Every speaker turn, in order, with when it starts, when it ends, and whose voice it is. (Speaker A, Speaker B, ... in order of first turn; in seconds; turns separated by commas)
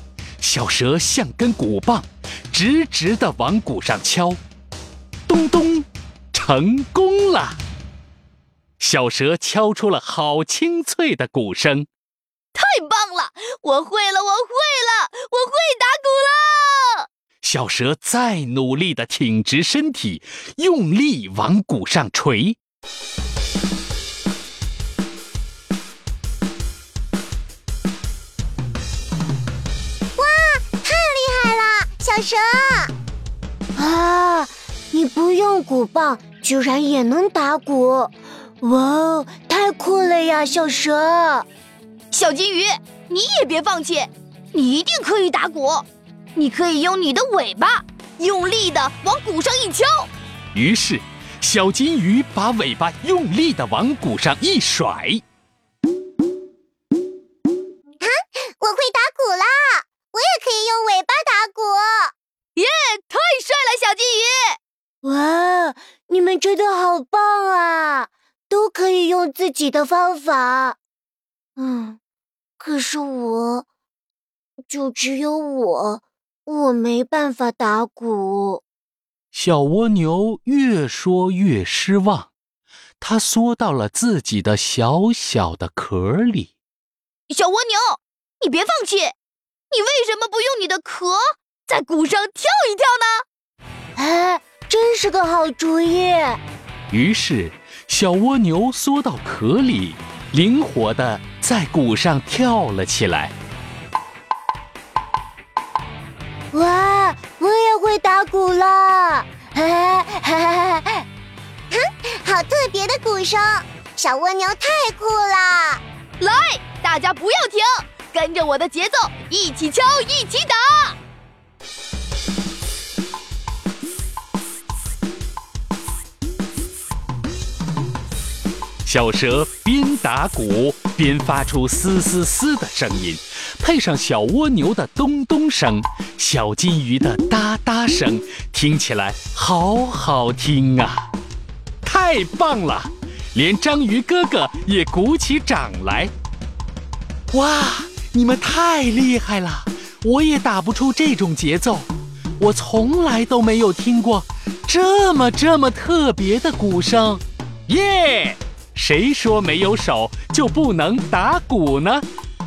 Speaker A: 0.4-4.4, Speaker A: 5.3-7.6, Speaker A: 8.8-11.9, Speaker B: 12.5-17.1, Speaker A: 17.4-22.6, Speaker C: 30.2-32.9, Speaker C: 33.8-41.5, Speaker B: 42.1-50.1, Speaker A: 50.5-55.2, Speaker C: 58.0-62.1, Speaker B: 62.5-64.6, Speaker C: 65.0-70.8, Speaker C: 71.6-72.0, Speaker C: 72.6-73.7, Speaker C: 74.7-78.6, Speaker A: 79.3-82.3, Speaker A: 83.0-86.5, Speaker B: 87.3-89.2, Speaker B: 89.7-93.2, Speaker C: 94.0-96.4, Speaker A: 96.9-103.3, Speaker C: 106.5-111.0, Speaker C: 111.7-115.8, Speaker B: 116.2-121.0, Speaker A: 128.8-141.1, Speaker A: 141.8-146.1, Speaker A: 147.3-162.1